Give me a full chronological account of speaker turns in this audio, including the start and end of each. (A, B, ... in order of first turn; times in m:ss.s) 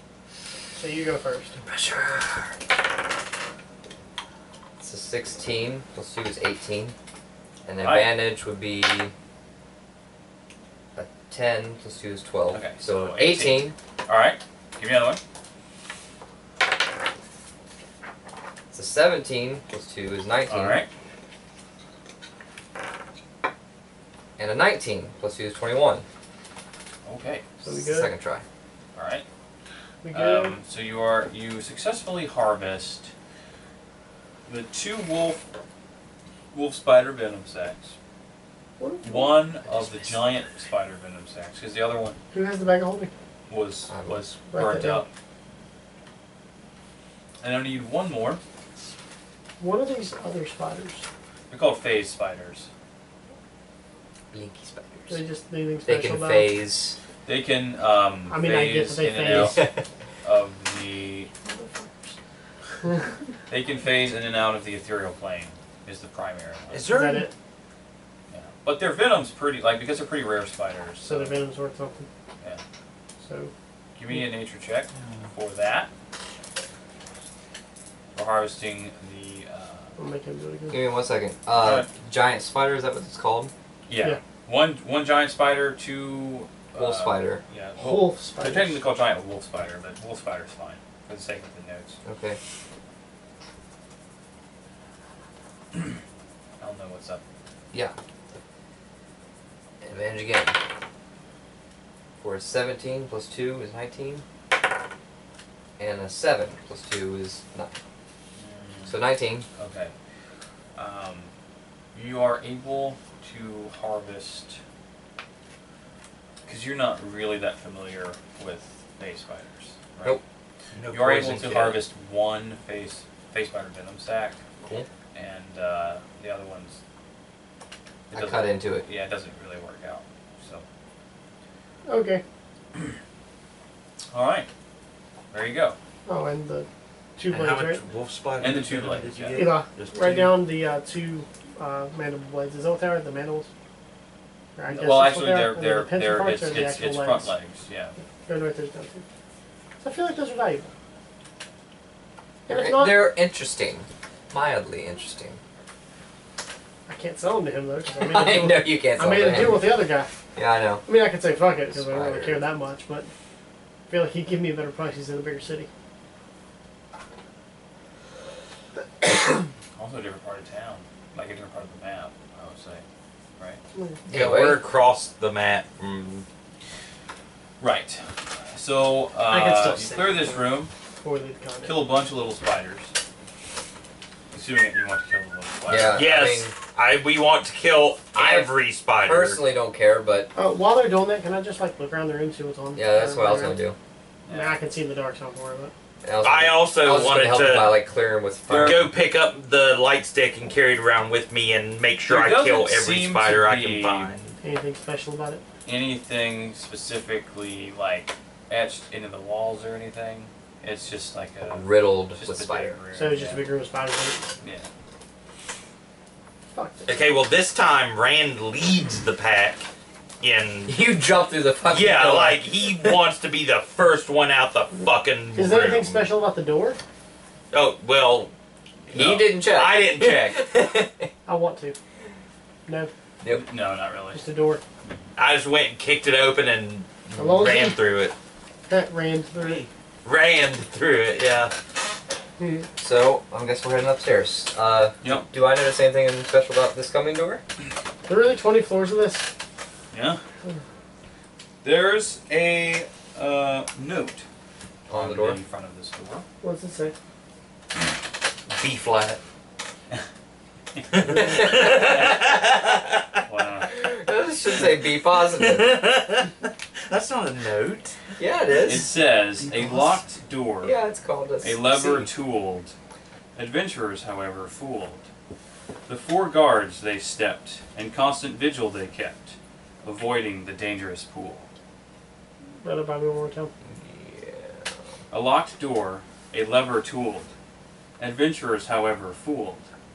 0:00.8-0:01.6 A
0:01.6-0:02.5 B
0:04.8-0:06.9 B
0:07.6-0:09.1 B
0:07.8-0:08.1 C
0:10.9-0:13.7 B
0:12.5-0:15.2 C
0:18.7-0:20.8 B
0:20.5-0:20.9 C
0:24.4-0:26.0 B
0:27.0-0:27.4 C
0:27.6-0:28.1 A
0:27.7-0:28.4 B
0:28.9-0:29.2 C
0:30.0-0:30.6 A
0:30.1-0:33.1 C
0:34.4-0:35.4 C
0:36.5-0:37.9 C
0:38.8-0:39.4 A
0:39.0-0:42.2 C
0:39.7-0:40.2 B
0:42.3-0:43.1 A
0:43.5-0:45.1 C
0:43.9-0:44.2 B
0:44.5-0:45.0 A
0:47.4-0:48.4 C
0:49.6-0:51.0 A
0:51.5-0:52.7 C
0:54.3-0:55.2 B
0:55.1-0:56.5 A
0:55.8-0:57.0 B
0:57.2-0:59.6 C
0:58.3-0:59.7 A
0:59.3-0:59.8 B
1:00.2-1:01.3 C
1:01.4-1:02.2 A
1:02.8-1:03.1 A
1:03.5-1:06.8 C
1:06.7-1:07.3 D
1:06.9-1:07.3 A
1:08.3-1:11.4 C
1:11.0-1:12.1 A
1:13.2-1:13.5 A
1:13.9-1:15.9 C
1:18.1-1:19.9 C
1:20.0-1:20.8 A
1:20.7-1:23.5 B
1:21.6-1:21.9 C
1:23.9-1:32.0 C
1:26.7-1:27.4 B
1:27.8-1:28.8 A
1:32.0-1:32.4 B
1:36.6-1:37.2 C
1:39.8-1:40.6 B
1:42.2-1:44.2 B
1:45.8-1:47.8 B
1:48.4-1:49.0 C
1:48.9-1:49.4 B
1:49.6-1:49.9 C
1:50.7-1:51.3 C
1:51.9-1:54.6 C
1:56.4-2:00.2 C
2:00.7-2:01.8 D
2:00.9-2:04.4 C
2:04.6-2:04.9 B
2:05.1-2:06.8 C
2:08.1-2:10.6 C
2:08.1-2:08.8 B
2:11.8-2:12.2 A
2:14.1-2:14.5 C
2:15.3-2:15.8 C
2:16.1-2:17.8 A
2:17.3-2:20.4 D
2:18.4-2:19.4 C
2:19.3-2:23.5 A
2:24.6-2:27.3 A
2:24.7-2:27.9 C
2:28.2-2:29.0 A
2:29.8-2:30.7 A
2:32.5-2:33.1 A
2:32.5-2:35.4 B
2:36.9-2:40.1 A
2:38.0-2:39.8 B
2:40.3-2:40.8 B
2:40.8-2:43.1 A
2:41.7-2:42.4 B
2:43.9-2:45.7 A
2:49.8-2:52.8 C
2:53.7-2:54.0 A
2:54.0-2:56.2 D
2:54.1-2:54.6 B
2:57.6-3:00.7 C
2:59.3-3:01.7 A
3:01.6-3:02.9 C
3:04.3-3:06.0 C
3:05.7-3:06.5 B
3:05.9-3:09.4 D
3:08.1-3:10.3 B
3:10.4-3:13.6 A
3:12.8-3:13.8 B
3:14.2-3:14.6 C
3:14.3-3:15.7 A
3:16.0-3:18.9 B
3:16.2-3:17.7 D
3:18.5-3:18.9 C
3:18.5-3:24.4 D
3:22.1-3:24.1 C
3:24.4-3:25.4 A
3:25.6-3:33.5 C
3:31.5-3:32.8 B
3:32.9-3:34.3 A
3:34.4-3:34.7 C
3:36.5-3:36.9 A
3:36.8-3:39.7 D
3:40.2-3:40.8 D
3:40.7-3:43.0 B
3:41.7-3:46.1 D
3:45.3-3:46.8 A
3:47.5-3:48.3 D
3:48.8-3:50.5 D
3:48.9-3:51.1 B
3:51.2-3:51.8 A
3:53.2-3:54.2 C
3:54.1-3:54.6 A
3:55.2-3:58.1 D
3:57.2-3:57.8 A
3:58.7-3:59.6 A
3:59.4-4:01.5 D
4:02.4-4:02.6 A
4:02.8-4:07.4 B
4:05.0-4:05.3 C
4:08.0-4:09.3 A
4:09.9-4:10.2 C
4:11.6-4:14.2 C
4:14.9-4:15.4 B
4:14.9-4:16.2 C
4:16.4-4:16.9 A
4:18.5-4:19.2 D
4:20.9-4:23.2 D
4:21.0-4:22.2 B
4:23.3-4:23.8 C
4:23.6-4:25.8 B
4:24.5-4:28.1 D
4:28.2-4:28.9 B
4:28.6-4:30.8 C
4:29.4-4:30.0 D
4:30.6-4:32.1 B
4:31.4-4:32.7 C
4:33.3-4:35.0 C
4:35.9-4:41.5 C
4:42.6-4:43.5 A
4:43.8-4:44.6 D
4:45.1-4:47.3 C
4:48.0-4:49.7 C